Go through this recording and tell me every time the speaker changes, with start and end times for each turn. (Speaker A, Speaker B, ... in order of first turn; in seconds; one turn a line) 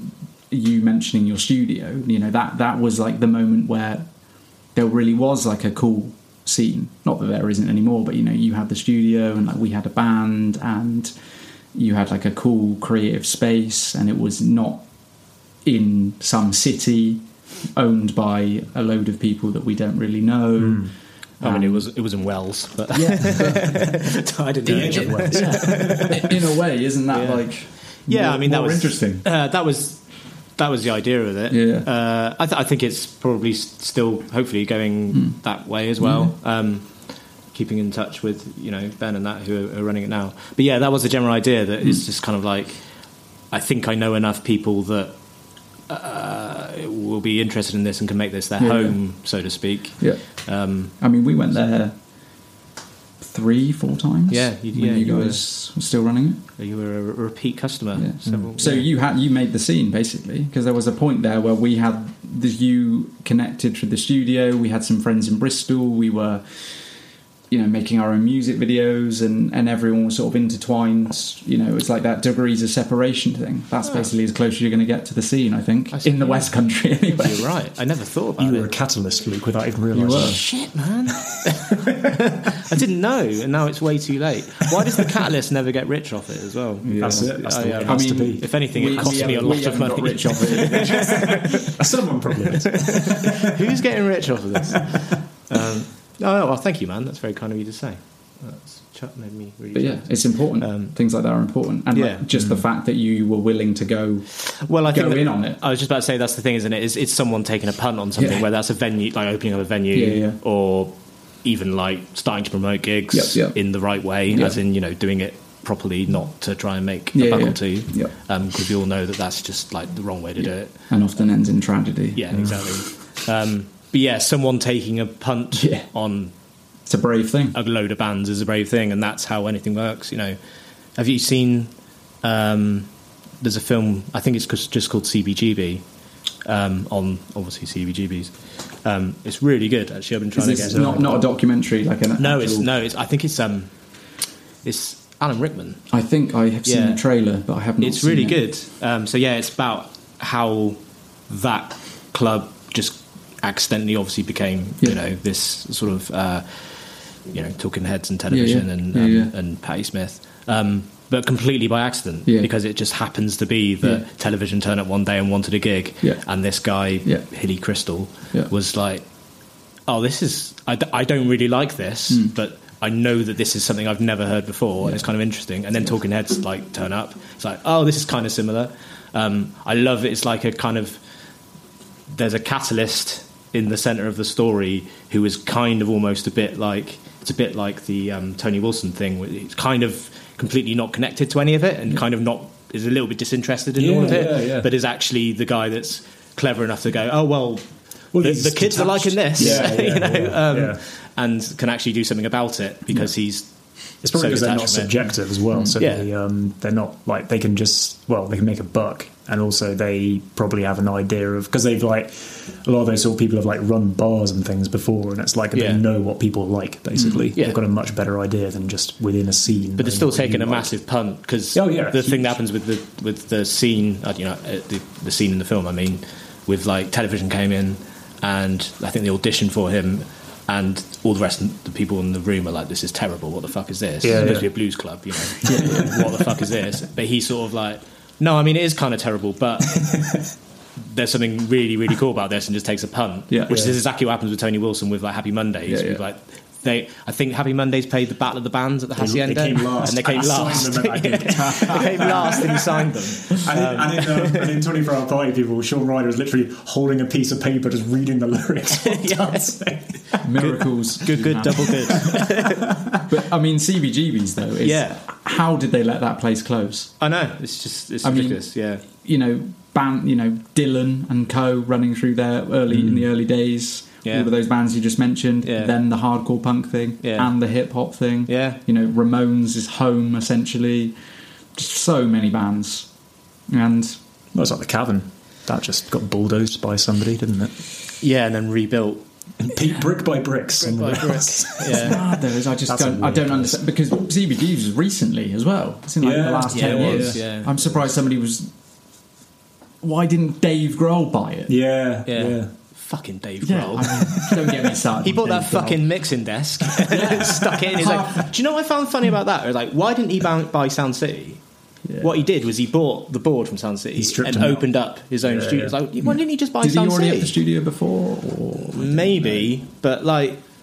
Speaker A: 0.5-4.1
Speaker A: 4.8-11.1
Speaker A: 11.7-14.8
Speaker A: 15.7-17.2
Speaker A: 17.7-21.9
Speaker B: 20.6-20.9
Speaker C: 21.4-26.3
Speaker A: 22.9-23.9
Speaker B: 24.7-26.3
Speaker A: 24.7-29.2
Speaker C: 27.1-30.0
Speaker C: 30.6-42.8
Speaker A: 31.5-31.9
Speaker A: 35.1-35.4
Speaker A: 36.0-36.3
Speaker C: 43.5-45.1
Speaker C: 45.9-51.0
Speaker A: 48.6-49.0
Speaker A: 50.0-51.9
Speaker A: 53.2-56.4
Speaker C: 54.3-55.4
Speaker C: 56.6-58.9
Speaker A: 58.0-66.6
Speaker B: 58.3-58.5
Speaker A: 67.5-77.5
Speaker C: 75.9-76.5
Speaker C: 77.2-78.7
Speaker B: 78.4-80.4
Speaker A: 79.9-80.4
Speaker C: 80.2-91.8
Speaker A: 86.8-91.6
Speaker B: 87.0-89.8
Speaker B: 90.7-93.8
Speaker C: 92.6-100.9
Speaker A: 99.8-104.3
Speaker C: 101.9-102.2
Speaker B: 102.3-102.6
Speaker C: 104.5-120.8
Speaker A: 104.9-105.6
Speaker A: 108.2-108.4
Speaker A: 109.9-110.4
Speaker A: 113.1-113.6
Speaker A: 114.3-114.6
Speaker A: 117.1-118.1
Speaker A: 120.9-122.7
Speaker C: 122.2-126.3
Speaker A: 125.5-125.9
Speaker A: 126.9-127.6
Speaker C: 127.5-130.4
Speaker C: 131.0-131.7
Speaker C: 132.2-132.9
Speaker C: 133.4-135.8
Speaker C: 136.4-141.2
Speaker A: 140.4-142.7
Speaker B: 140.6-141.2
Speaker C: 142.2-143.7
Speaker C: 144.6-145.8
Speaker A: 145.9-148.4
Speaker C: 146.7-147.0
Speaker C: 147.8-169.1
Speaker A: 158.3-159.3
Speaker C: 169.9-181.0
Speaker C: 182.1-203.5
Speaker B: 193.8-194.7
Speaker B: 198.1-200.8
Speaker A: 199.4-199.7
Speaker B: 204.0-220.7
Speaker C: 204.1-205.2
Speaker A: 205.5-205.8
Speaker C: 205.8-206.1
Speaker C: 215.5-215.8
Speaker A: 217.0-217.3
Speaker C: 219.8-239.8
Speaker B: 221.5-222.4
Speaker B: 234.0-234.5
Speaker A: 234.2-234.4
Speaker A: 235.4-236.0
Speaker B: 239.8-240.2
Speaker C: 240.8-254.6
Speaker A: 243.3-243.6
Speaker B: 243.5-243.8
Speaker A: 245.7-246.0
Speaker B: 249.0-260.2
Speaker A: 251.4-252.4
Speaker C: 258.8-259.5
Speaker C: 260.1-262.6
Speaker A: 260.2-262.2
Speaker B: 261.5-263.0
Speaker A: 262.9-267.0
Speaker C: 264.6-265.0
Speaker C: 267.0-268.8
Speaker A: 268.0-281.0
Speaker B: 272.7-273.0
Speaker C: 275.4-275.7
Speaker C: 277.0-277.3
Speaker C: 278.3-278.6
Speaker A: 281.6-282.9
Speaker A: 283.5-284.0
Speaker B: 284.3-287.6
Speaker C: 288.0-289.0
Speaker B: 289.4-293.6
Speaker C: 290.6-292.0
Speaker A: 291.7-298.5
Speaker B: 296.0-297.2
Speaker C: 296.5-297.9
Speaker A: 299.8-301.6
Speaker B: 301.5-302.5
Speaker C: 302.1-304.3
Speaker A: 303.4-305.8
Speaker B: 303.9-304.7
Speaker C: 305.0-311.4
Speaker A: 306.8-308.3
Speaker A: 311.9-312.2
Speaker C: 312.0-317.4
Speaker B: 314.0-314.7
Speaker B: 315.2-315.8
Speaker A: 316.0-319.5
Speaker C: 318.7-320.4